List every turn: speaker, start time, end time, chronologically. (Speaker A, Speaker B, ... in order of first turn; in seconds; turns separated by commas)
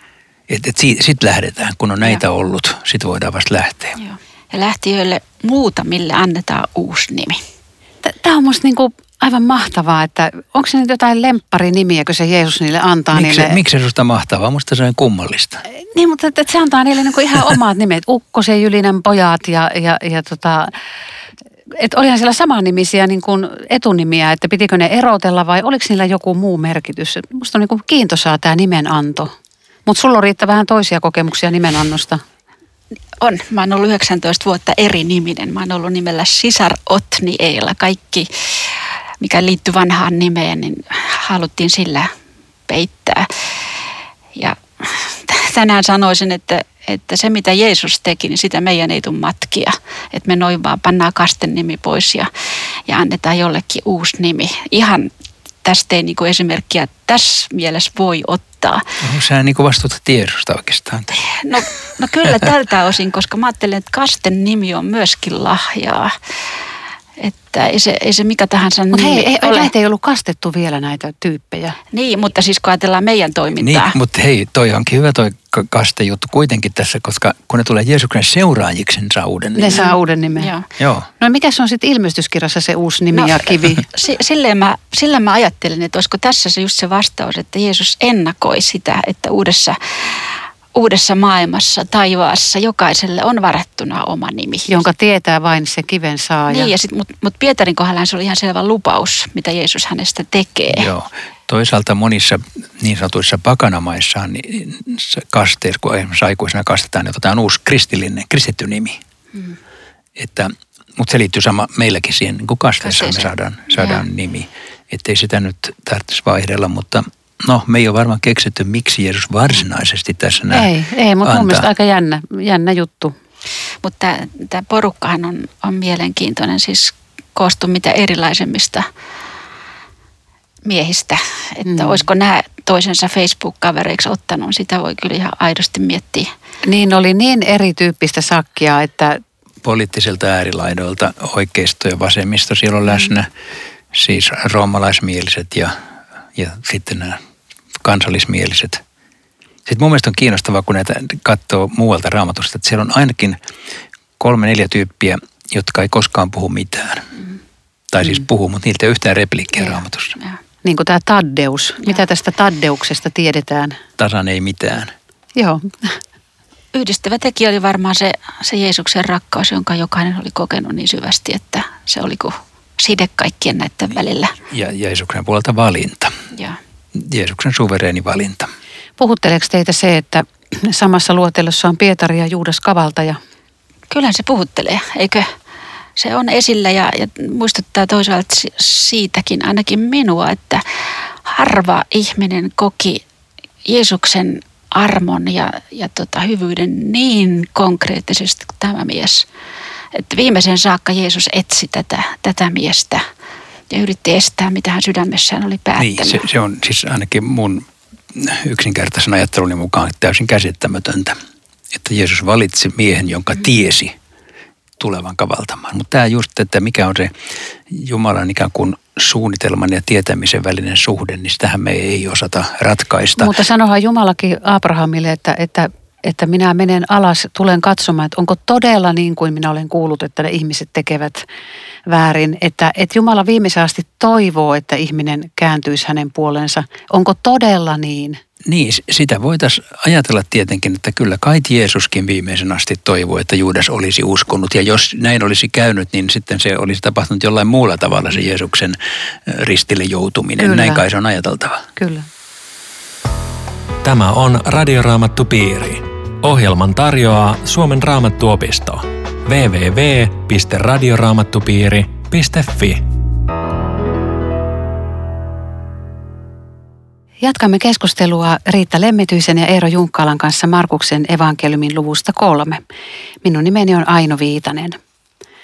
Speaker A: 0.5-4.0, Speaker B: 4.0-7.4, Speaker C: 8.0-13.6, Speaker A: 13.1-15.6, Speaker C: 15.8-20.7, Speaker C: 21.7-29.3, Speaker C: 29.9-32.2, Speaker B: 33.2-42.1, Speaker B: 42.7-43.5, Speaker B: 44.4-52.3, Speaker B: 52.9-55.1, Speaker B: 55.6-58.9, Speaker A: 59.0-61.2, Speaker B: 61.2-66.1, Speaker B: 67.2-69.7, Speaker C: 68.9-71.8, Speaker B: 71.9-74.0, Speaker A: 73.6-79.8, Speaker C: 79.5-80.5, Speaker B: 79.7-80.7, Speaker A: 80.8-81.1, Speaker C: 81.2-83.8, Speaker B: 83.1-94.8, Speaker C: 94.7-96.7, Speaker B: 96.5-100.9, Speaker A: 100.7-109.0, Speaker A: 110.2-120.7, Speaker B: 112.8-114.0, Speaker C: 120.5-123.1, Speaker A: 121.2-121.7, Speaker B: 123.8-128.8, Speaker B: 130.6-136.3, Speaker C: 131.7-132.1, Speaker C: 136.6-139.2, Speaker A: 139.6-143.3, Speaker A: 143.9-145.7, Speaker A: 146.3-147.2, Speaker A: 147.8-148.8, Speaker A: 149.7-153.4, Speaker A: 154.2-157.1, Speaker A: 157.9-160.1, Speaker B: 159.6-160.4, Speaker C: 160.6-163.8, Speaker A: 164.0-164.9, Speaker C: 165.3-165.9, Speaker B: 166.7-174.3, Speaker A: 174.5-176.1, Speaker B: 176.3-176.6, Speaker A: 176.9-178.5, Speaker C: 179.0-183.2, Speaker B: 183.9-185.3, Speaker B: 185.9-190.6, Speaker B: 191.2-193.0, Speaker B: 193.7-199.3, Speaker B: 199.9-203.0, Speaker B: 203.7-206.2, Speaker A: 205.8-211.1, Speaker A: 211.7-213.9, Speaker A: 214.8-217.1, Speaker A: 217.7-223.3, Speaker C: 223.2-231.2, Speaker C: 231.8-238.2, Speaker A: 238.4-251.7, Speaker C: 250.4-250.8, Speaker C: 251.8-252.1, Speaker D: 253.8-262.8, Speaker C: 267.2-272.6, Speaker C: 273.2-274.8